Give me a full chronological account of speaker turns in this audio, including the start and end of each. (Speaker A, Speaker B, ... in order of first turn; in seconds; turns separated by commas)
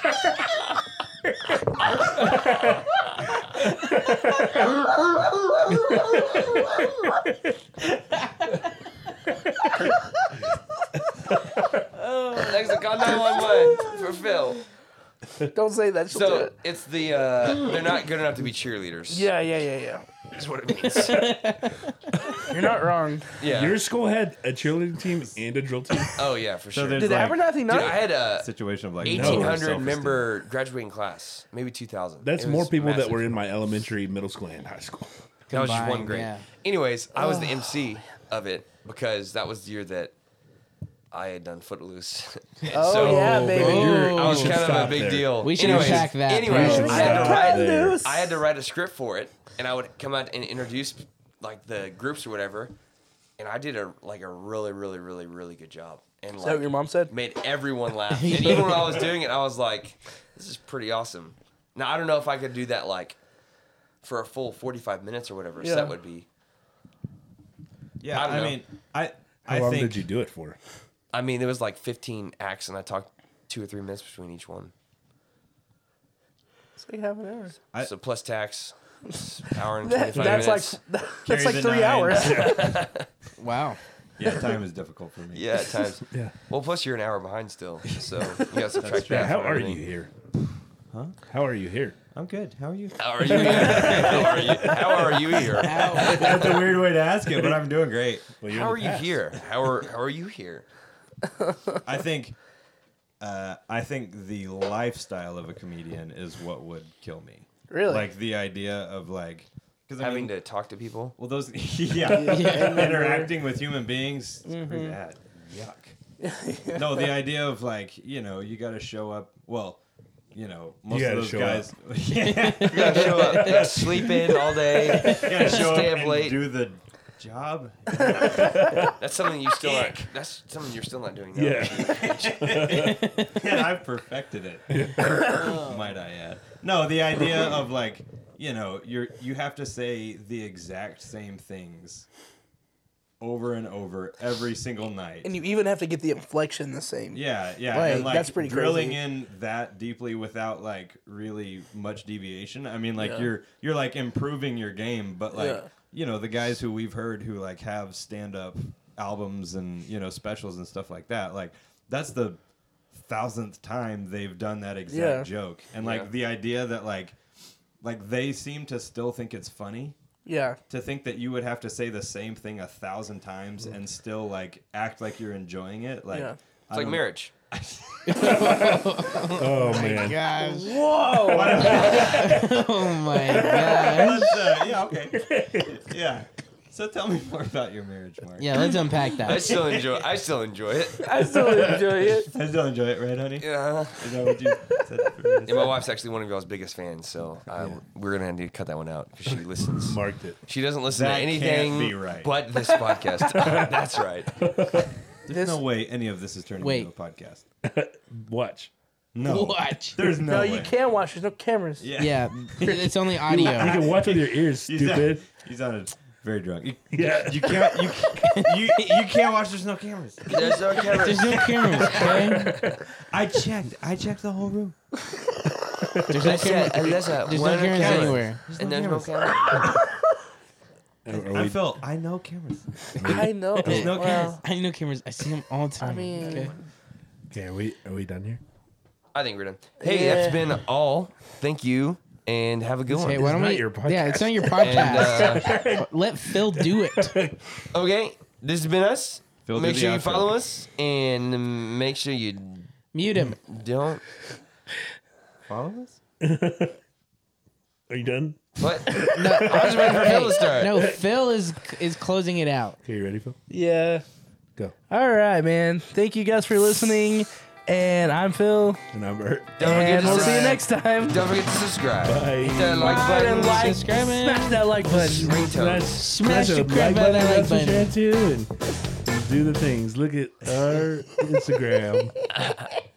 Speaker A: 2.1-2.8, Speaker A: 3.8-4.7, Speaker A: 5.7-6.2, Speaker B: 12.0-12.8, Speaker C: 12.3-14.6, Speaker B: 13.3-13.9, Speaker B: 15.5-16.5, Speaker C: 16.1-19.3, Speaker B: 19.1-20.1, Speaker C: 20.3-21.4, Speaker D: 21.0-22.0, Speaker B: 22.5-23.3, Speaker C: 23.4-23.8, Speaker A: 23.4-26.2, Speaker C: 26.2-28.5, Speaker E: 26.7-30.3, Speaker B: 27.0-28.1, Speaker C: 29.0-33.4, Speaker A: 29.0-29.7, Speaker A: 32.2-35.1, Speaker D: 35.5-36.5, Speaker C: 35.5-40.1, Speaker B: 37.2-37.6, Speaker C: 41.1-52.7, Speaker B: 42.7-44.1, Speaker A: 42.9-48.0, Speaker D: 43.5-47.3, Speaker B: 46.5-48.3, Speaker C: 53.4-63.2, Speaker B: 56.4-57.1, Speaker D: 58.2-58.9, Speaker C: 64.0-66.3, Speaker B: 65.6-65.9, Speaker E: 68.0-70.1, Speaker C: 68.1-68.6, Speaker A: 69.5-70.6, Speaker C: 71.1-74.7, Speaker B: 76.8-77.6, Speaker C: 77.8-80.8, Speaker B: 79.8-82.8, Speaker A: 80.2-80.5, Speaker E: 81.2-82.7, Speaker A: 82.2-82.6, Speaker C: 82.2-83.1, Speaker D: 83.4-83.8, Speaker E: 84.2-85.7, Speaker C: 85.3-89.8, Speaker E: 88.8-89.5, Speaker A: 88.9-90.1, Speaker E: 90.9-91.2, Speaker A: 91.3-92.0, Speaker E: 92.1-94.7, Speaker C: 93.0-96.1, Speaker A: 93.2-95.3, Speaker D: 95.5-96.7, Speaker E: 95.7-98.3, Speaker A: 98.4-99.4, Speaker C: 98.5-100.7, Speaker E: 101.8-102.4, Speaker E: 103.2-110.3, Speaker B: 107.7-108.1, Speaker C: 110.0-111.2, Speaker E: 111.2-116.0, Speaker B: 112.0-113.3, Speaker D: 112.2-113.0, Speaker B: 114.5-115.0, Speaker B: 116.2-117.1, Speaker E: 116.7-119.8, Speaker E: 120.3-123.5, Speaker A: 120.9-121.7, Speaker D: 122.2-123.7, Speaker C: 122.7-126.4, Speaker A: 123.4-125.3, Speaker E: 125.0-128.7, Speaker A: 128.2-128.9, Speaker C: 129.0-132.3, Speaker E: 129.6-130.0, Speaker A: 131.3-133.2, Speaker E: 131.8-142.1, Speaker D: 132.7-133.4, Speaker A: 134.7-135.6, Speaker B: 135.4-135.6, Speaker E: 143.2-145.3, Speaker B: 145.2-149.0, Speaker E: 147.1-162.4, Speaker B: 153.0-153.3, Speaker B: 155.3-155.7, Speaker E: 162.9-167.2, Speaker B: 164.9-165.3, Speaker C: 165.8-166.1, Speaker E: 167.8-169.9, Speaker B: 170.2-170.6, Speaker E: 170.7-178.5, Speaker B: 176.1-176.4, Speaker C: 176.7-177.3, Speaker D: 178.1-184.4, Speaker A: 178.2-178.8, Speaker A: 179.3-180.2, Speaker B: 180.4-182.3, Speaker E: 181.2-188.8, Speaker A: 181.4-182.1, Speaker A: 183.6-183.8, Speaker A: 185.1-185.7, Speaker D: 188.4-189.6, Speaker C: 189.2-191.1, Speaker E: 189.3-190.1, Speaker B: 191.0-192.3, Speaker A: 191.4-192.0, Speaker E: 191.4-195.8, Speaker C: 193.4-194.1, Speaker C: 195.5-204.4, Speaker A: 197.5-197.8, Speaker A: 199.8-200.4, Speaker E: 200.9-202.3, Speaker A: 203.2-203.8, Speaker A: 204.4-204.9, Speaker E: 205.2-207.4, Speaker B: 205.3-205.6, Speaker D: 206.6-206.9, Speaker A: 207.6-208.7, Speaker E: 209.1-210.8, Speaker D: 209.2-210.2, Speaker B: 210.3-211.9, Speaker E: 211.8-224.8, Speaker D: 212.0-213.9, Speaker A: 213.3-215.3, Speaker A: 216.9-217.6, Speaker D: 218.3-218.9, Speaker C: 220.3-221.5, Speaker D: 220.9-222.7, Speaker A: 221.9-222.8, Speaker D: 226.1-228.4, Speaker C: 226.2-229.7, Speaker E: 227.7-229.7, Speaker A: 231.1-231.7, Speaker E: 231.1-234.4, Speaker A: 233.0-234.0, Speaker B: 233.0-234.4, Speaker D: 233.8-236.6, Speaker B: 235.8-236.6, Speaker A: 237.3-238.4, Speaker C: 239.1-243.3, Speaker B: 239.8-240.6, Speaker D: 242.9-247.2, Speaker A: 243.0-247.6, Speaker C: 244.6-245.6, Speaker C: 247.7-252.7, Speaker E: 249.4-250.4, Speaker D: 252.9-253.4, Speaker C: 253.4-254.0, Speaker E: 255.5-255.9, Speaker A: 256.2-256.8, Speaker A: 257.9-260.1, Speaker C: 258.6-260.9, Speaker D: 259.1-262.8, Speaker A: 260.7-261.1, Speaker A: 262.8-263.4, Speaker B: 263.5-264.0, Speaker B: 264.9-268.8, Speaker A: 268.9-269.9, Speaker C: 269.6-273.8, Speaker B: 269.6-271.4, Speaker A: 272.0-273.0, Speaker B: 272.8-275.4, Speaker D: 273.1-274.7, Speaker A: 274.9-282.1, Speaker C: 274.9-276.1, Speaker D: 276.0-277.9